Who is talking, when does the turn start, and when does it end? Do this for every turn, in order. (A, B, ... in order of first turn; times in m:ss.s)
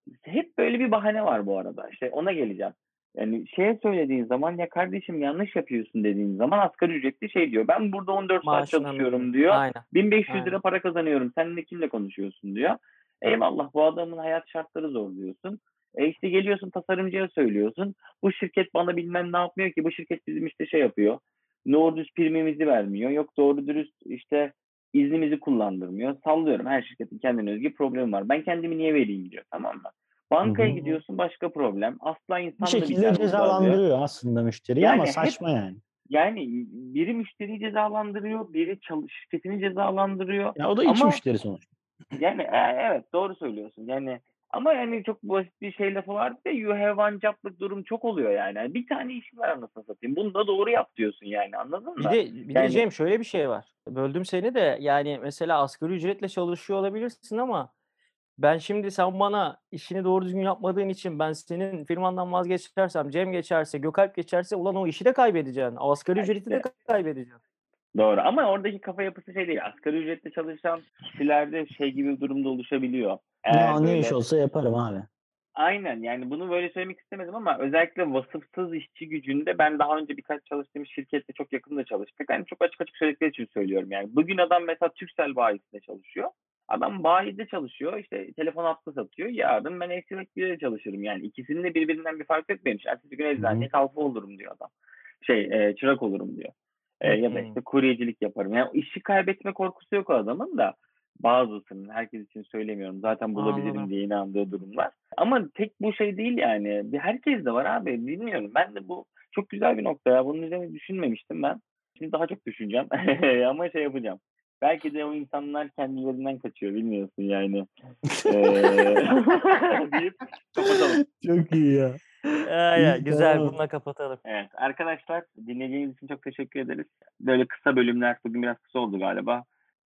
0:00.2-0:33.8 A
0:08.4-0:10.6 B
0:30.4-0:30.8 C
0:30.6-0:31.0 B
0:32.6-0:35.8 C
0:34.8-0:35.4 A
0:36.1-0:41.2 A
0:40.6-0:41.7 C
0:42.2-0:52.9 A
0:52.0-0:57.7 B
0:58.4-1:07.4 B
1:06.2-1:06.7 A
1:08.0-1:14.2 A
1:13.5-1:15.1 C
1:15.6-1:34.7 A
1:33.4-1:33.7 C
1:35.2-1:57.7 A
1:37.0-1:37.6 B
1:43.4-1:43.9 B
1:58.1-1:59.0 C
1:58.2-2:01.0 A
2:00.6-2:03.6 C
2:02.4-2:04.2 B
2:04.2-2:09.5 A